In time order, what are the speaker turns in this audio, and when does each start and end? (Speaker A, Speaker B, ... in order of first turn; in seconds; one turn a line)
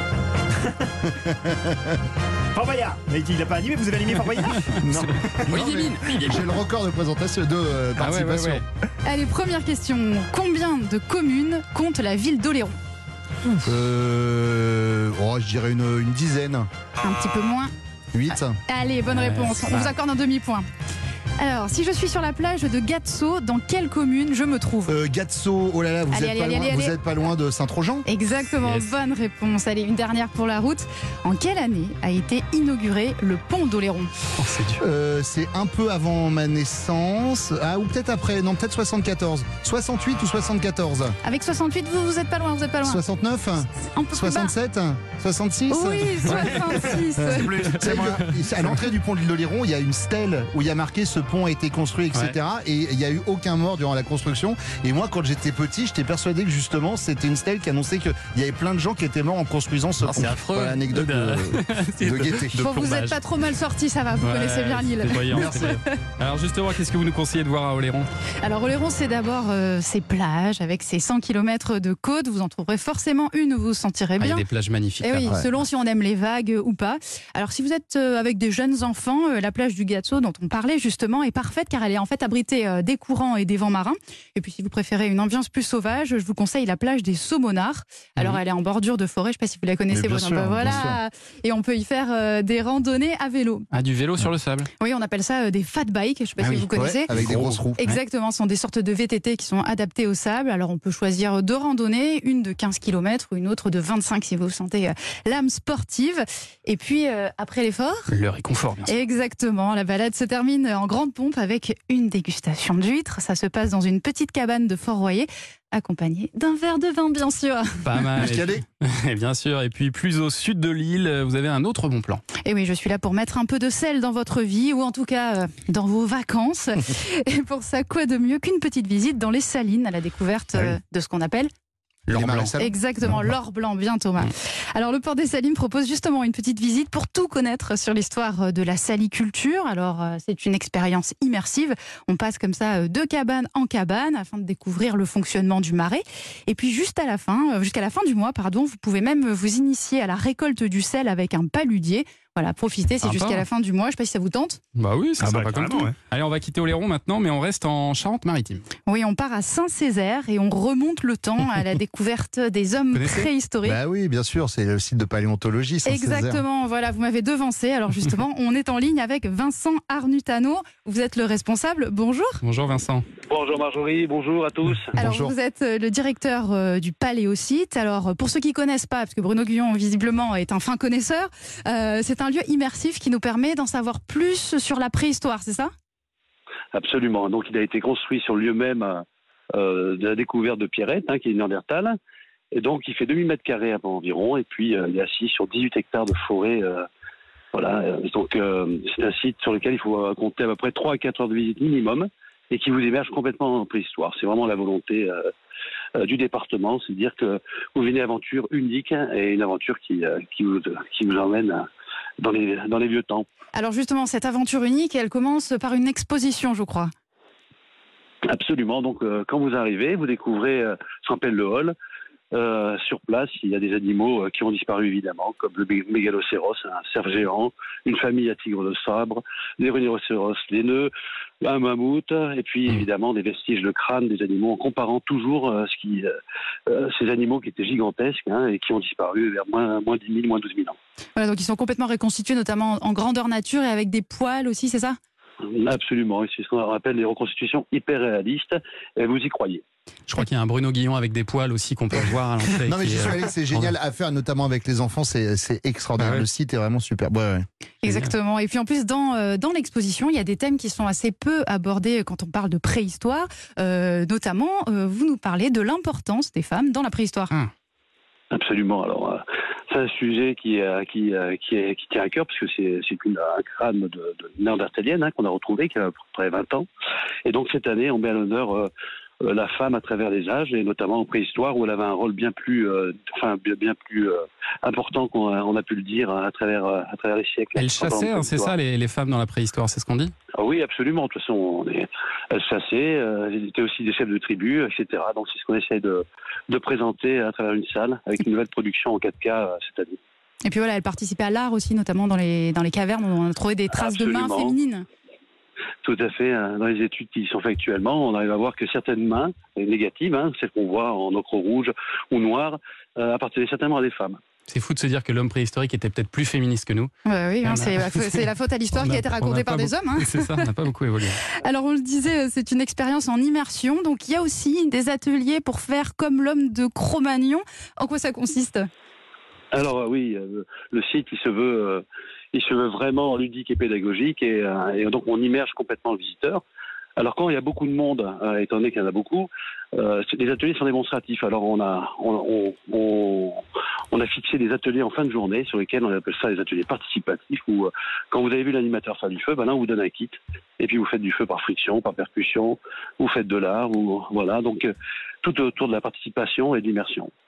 Speaker A: 1.2-1.7
Speaker B: 2.5-5.6
Speaker C: 4.5-4.8
Speaker A: 4.8-8.6
Speaker C: 5.5-6.5
Speaker C: 8.0-8.6
Speaker D: 9.0-12.8
Speaker A: 13.6-16.7
Speaker D: 17.0-17.7
Speaker A: 18.1-18.6
Speaker D: 18.6-20.6
Speaker C: 19.1-19.9
Speaker D: 21.4-24.9
Speaker A: 24.9-28.1
Speaker D: 26.1-26.9
Speaker D: 28.1-34.1
Speaker C: 28.6-28.9
Speaker C: 34.4-34.8
Speaker A: 34.8-41.2
Speaker D: 41.2-43.0
Speaker A: 42.8-62.6
Speaker D: 43.8-44.5
Speaker D: 45.7-48.0
Speaker C: 47.5-48.4
Speaker C: 60.0-63.2
Speaker D: 62.6-65.8
Speaker C: 64.2-68.1
Speaker A: 65.3-65.7
Speaker D: 68.4-74.4
Speaker C: 74.2-75.4
Speaker D: 75.0-93.7
Speaker A: 89.9-91.0
Speaker C: 93.7-94.7
Speaker D: 94.8-97.1
Speaker C: 96.4-98.0
Speaker A: 96.7-97.8
Speaker D: 97.8-108.1
Speaker C: 108.1-108.9
Speaker D: 108.9-118.1
Speaker C: 117.8-122.2
Speaker A: 118.2-118.6
Speaker D: 122.4-131.5
Speaker C: 132.1-132.6
Speaker A: 132.1-133.2
Speaker D: 132.6-154.6
Speaker C: 153.0-153.4
Speaker C: 154.8-158.7
Speaker B: 155.2-155.9
Speaker D: 158.9-163.8
Speaker C: 162.9-163.3
Speaker A: 163.7-166.4
Speaker D: 165.8-172.4
Speaker C: 172.4-173.1
Speaker E: 173.2-175.0
Speaker D: 175.0-185.7
Speaker A: 175.0-175.3
Speaker E: 186.7-192.0
Speaker E: 192.5-196.9
Speaker E: 197.5-205.3
Speaker E: 206.0-211.7
Speaker E: 212.2-213.2
Speaker D: 213.5-216.9
Speaker E: 218.2-221.8
Speaker E: 222.3-236.2
Speaker E: 236.7-240.8
Speaker D: 241.2-244.9
Speaker E: 245.4-249.6
Speaker C: 250.1-253.7
Speaker A: 252.6-257.4
Speaker C: 256.0-256.2
Speaker D: 257.8-267.3
Speaker C: 257.9-258.1
Speaker E: 268.3-276.7
Speaker E: 277.2-278.7
Speaker E: 279.2-288.5
Speaker C: 287.6-290.1
Speaker E: 290.4-300.0
Speaker D: 300.4-304.9
Speaker E: 303.7-304.6
Speaker E: 305.8-314.2
Speaker C: 314.5-316.9
Speaker D: 317.1-320.5
Speaker C: 317.4-321.3
Speaker D: 321.4-328.7
Speaker E: 329.5-336.4
Speaker E: 336.9-357.1